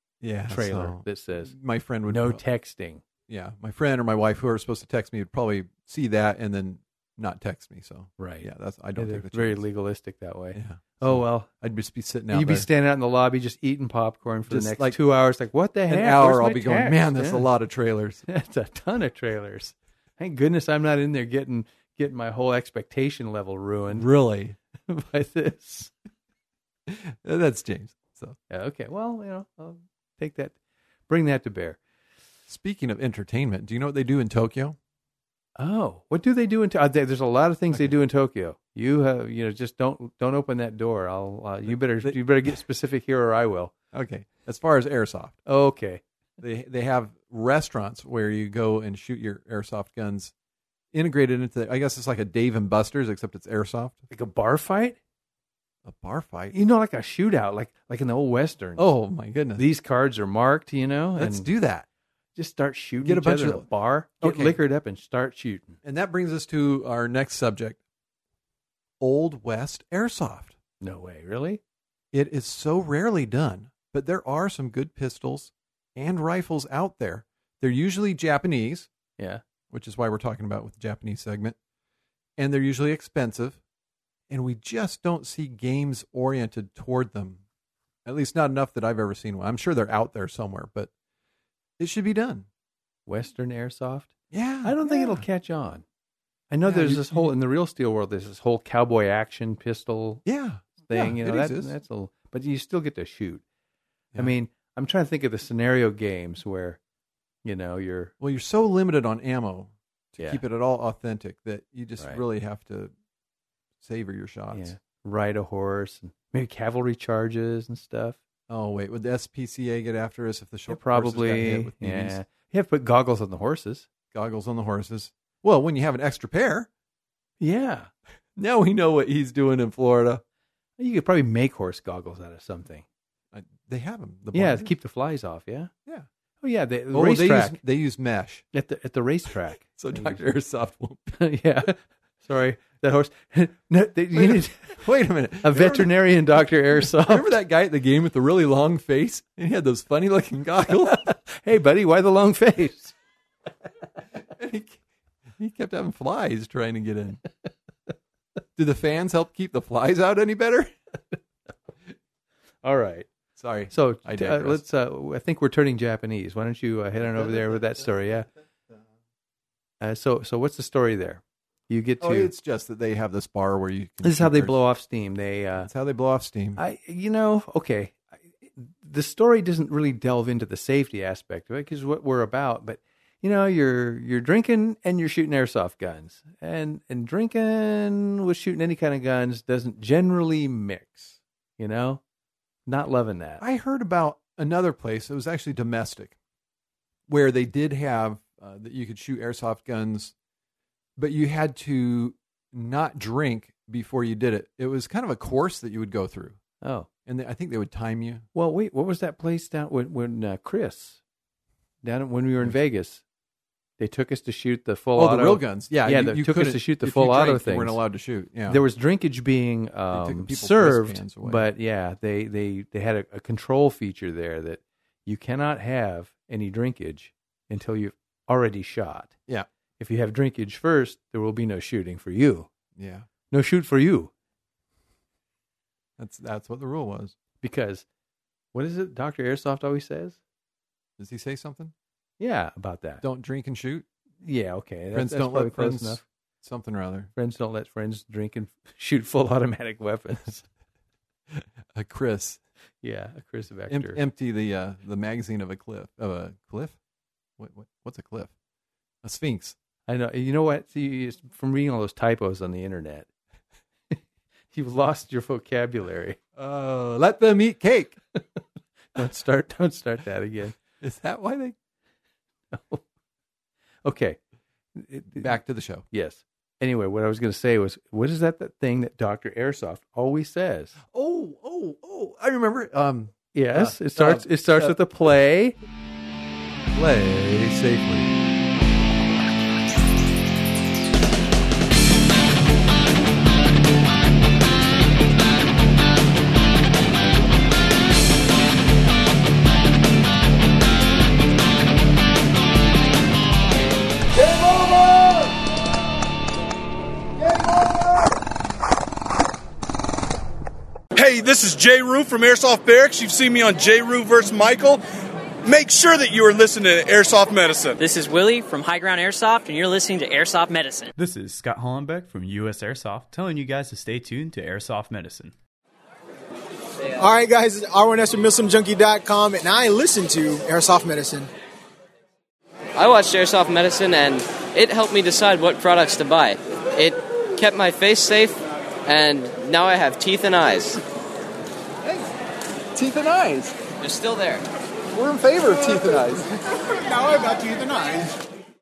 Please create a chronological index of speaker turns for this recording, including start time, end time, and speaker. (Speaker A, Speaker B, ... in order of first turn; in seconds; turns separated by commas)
Speaker A: 0.2-2.4, Speaker B: 0.5-1.5, Speaker B: 2.1-3.0, Speaker A: 3.3-9.6, Speaker B: 8.2-11.5, Speaker A: 10.5-12.7, Speaker B: 12.3-17.5, Speaker A: 14.5-15.0, Speaker A: 15.9-18.3, Speaker B: 18.3-24.1, Speaker A: 23.9-24.6, Speaker B: 24.9-25.9, Speaker A: 26.9-28.4, Speaker B: 28.5-30.6, Speaker B: 31.1-31.8, Speaker A: 32.5-34.8, Speaker B: 35.6-43.7, Speaker A: 41.7-42.2, Speaker A: 43.9-45.4, Speaker B: 45.5-46.0, Speaker A: 46.4-50.3, Speaker A: 50.9-54.0, Speaker B: 54.1-55.0, Speaker A: 55.9-56.5, Speaker B: 56.5-58.9, Speaker A: 58.8-59.6, Speaker B: 59.6-61.5, Speaker A: 61.2-61.9, Speaker B: 62.4-65.8, Speaker A: 63.0-63.7, Speaker A: 64.2-64.6, Speaker A: 65.8-67.8, Speaker A: 69.0-70.6, Speaker B: 70.8-71.6, Speaker A: 72.1-78.9, Speaker A: 79.7-81.6, Speaker A: 82.4-83.6, Speaker A: 84.3-87.4, Speaker A: 88.0-90.9, Speaker A: 91.8-92.5, Speaker B: 93.1-95.8, Speaker A: 94.3-95.2, Speaker B: 96.5-100.2, Speaker A: 96.7-97.3, Speaker A: 100.3-101.8, Speaker B: 100.9-103.4, Speaker B: 104.2-106.8, Speaker B: 107.4-108.1, Speaker A: 108.2-112.9, Speaker B: 110.2-110.4, Speaker A: 113.8-114.7, Speaker B: 114.5-118.2, Speaker A: 118.5-122.2, Speaker B: 120.7-123.9, Speaker A: 124.1-126.7, Speaker B: 127.4-127.9, Speaker A: 128.4-130.2, Speaker B: 130.8-132.8, Speaker A: 133.3-134.7, Speaker B: 134.3-135.7, Speaker B: 136.4-137.6, Speaker A: 136.9-138.4, Speaker B: 138.5-140.2, Speaker A: 139.8-141.1, Speaker B: 141.1-144.8, Speaker A: 144.1-145.9, Speaker B: 145.4-147.3, Speaker A: 146.9-151.1, Speaker B: 150.8-152.9, Speaker A: 154.3-154.8, Speaker A: 155.4-157.2, Speaker A: 158.6-160.8, Speaker B: 162.6-163.1, Speaker A: 163.4-164.6, Speaker B: 163.7-168.3, Speaker A: 167.1-167.7, Speaker B: 169.8-172.3, Speaker A: 172.0-174.6, Speaker B: 174.0-175.7, Speaker A: 175.6-176.6, Speaker B: 176.6-192.0, Speaker B: 192.7-193.4, Speaker A: 193.4-196.2, Speaker A: 197.1-200.1, Speaker A: 201.0-206.4, Speaker B: 206.6-206.9, Speaker A: 207.1-208.3, Speaker B: 208.3-211.0, Speaker B: 211.8-213.0, Speaker B: 213.8-217.8, Speaker A: 215.0-218.6, Speaker B: 218.5-229.2, Speaker A: 219.9-221.5, Speaker B: 229.8-232.5, Speaker A: 232.8-233.1, Speaker B: 233.3-234.1, Speaker A: 236.0-237.2, Speaker B: 237.4-237.8, Speaker B: 238.5-240.2, Speaker A: 241.0-241.7, Speaker B: 242.2-243.0, Speaker A: 243.0-243.9, Speaker B: 244.2-246.0, Speaker A: 244.9-247.1, Speaker B: 247.2-250.4, Speaker A: 251.3-252.4, Speaker B: 252.8-254.0, Speaker A: 253.7-256.8, Speaker A: 257.4-258.3, Speaker A: 259.0-259.6, Speaker B: 259.9-263.1, Speaker B: 264.5-266.2, Speaker A: 266.4-268.0, Speaker B: 268.9-270.6, Speaker A: 270.8-271.6, Speaker B: 272.5-272.8, Speaker B: 273.9-274.2, Speaker B: 274.8-275.3, Speaker A: 275.1-275.9, Speaker B: 275.9-280.8, Speaker A: 280.9-284.8, Speaker B: 283.3-285.6, Speaker A: 286.7-288.2, Speaker C: 310.9-314.8, Speaker C: 315.4-317.8, Speaker D: 317.8-320.9, Speaker E: 321.0-325.3, Speaker F: 327.0-331.3, Speaker G: 332.8-340.8, Speaker G: 343.8-344.5, Speaker F: 347.0-348.1